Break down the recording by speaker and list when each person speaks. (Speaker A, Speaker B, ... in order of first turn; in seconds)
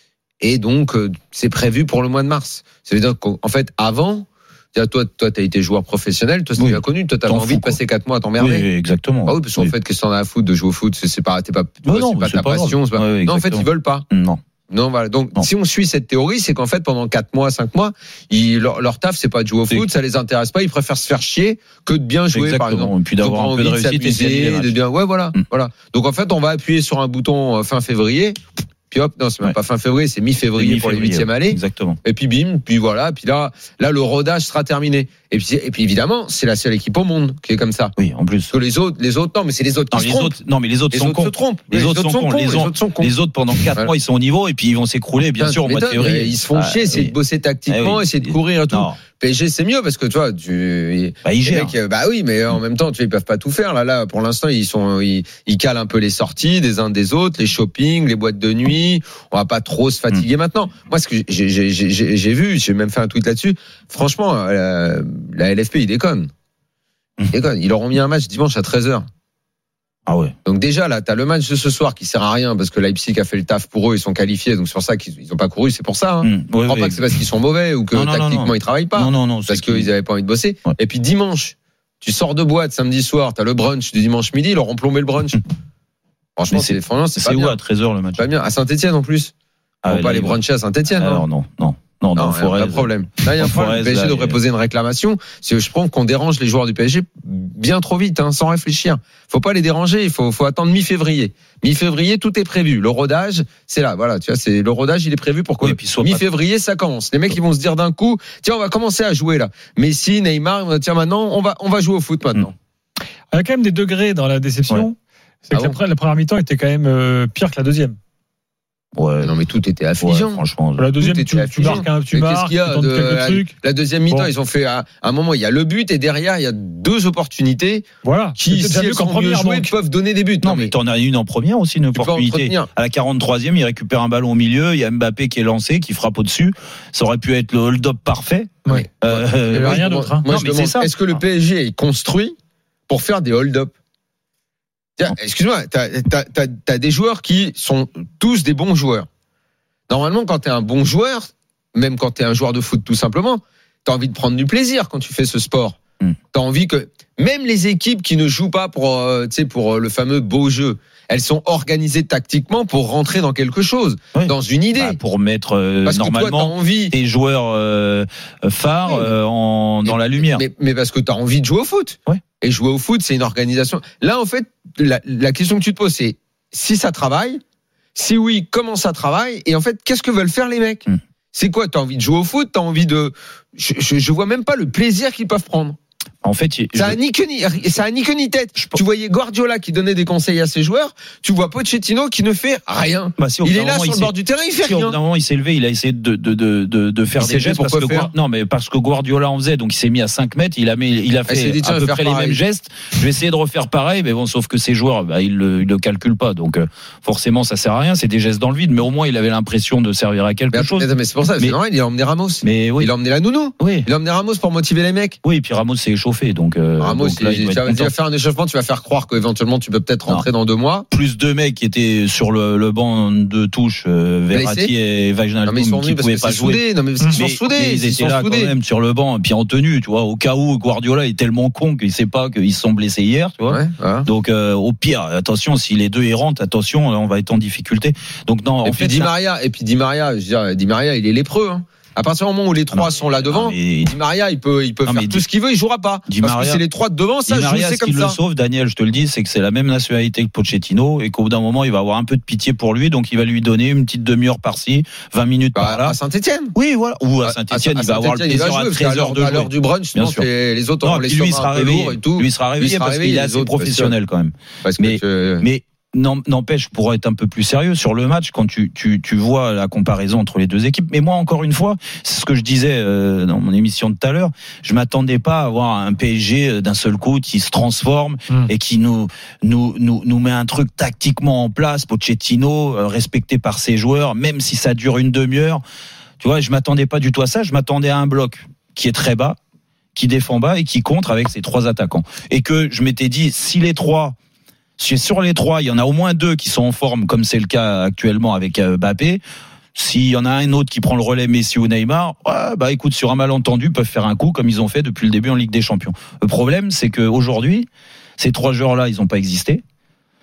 Speaker A: 0.4-8.7, 9.2-14.1, 14.7-28.4, 28.9-37.9, 38.5-40.3, 40.9-43.9, 45.4-66.3, 67.3-69.1, 70.5-85.4, 86.4-87.6, 88.2-89.3, 89.9-91.2, 92.2-112.5, 115.5-115.8, 119.2-120.4, 120.9-130.7, 131.9-132.7, 138.7-142.3, 142.9-143.7, 145.0-149.1, 149.9-155.8, 156.3-165.0, 165.8-166.9, 168.8-169.1, 169.8-177.4, 177.9-185.8, 186.7-195.0, 197.2-198.1, 201.2-202.4, 210.5-215.2, 216.8-220.9, 224.3-224.7, 225.4-228.5, 233.5-234.1, 238.6-248.2, 255.5-256.5, 257.2-263.9, 264.6-265.5
Speaker B: 6.5-7.8, 8.4-9.7, 11.8-14.4, 22.3-24.8, 30.5-32.0, 38.0-38.5, 39.9-47.1, 47.7-49.0, 51.2-51.7, 70.1-70.3, 76.2-77.1, 77.9-79.9, 86.5-88.2, 89.8-94.4, 105.6-106.2, 118.9-119.3, 120.0-120.9, 130.4-140.9, 164.1-170.4, 186.2-187.0, 193.2-211.6, 212.4-212.9, 213.6-213.9, 215.2-217.9, 220.9-239.1, 242.7-243.9, 244.8-245.2, 246.1-246.6, 247.3-255.9, 256.5-260.3, 260.8-285.6, 286.2-289.4, 289.9-294.1, 294.8-299.2, 299.7-309.6
Speaker C: 113.3-118.0, 120.7-123.5, 128.0-129.7, 138.6-140.3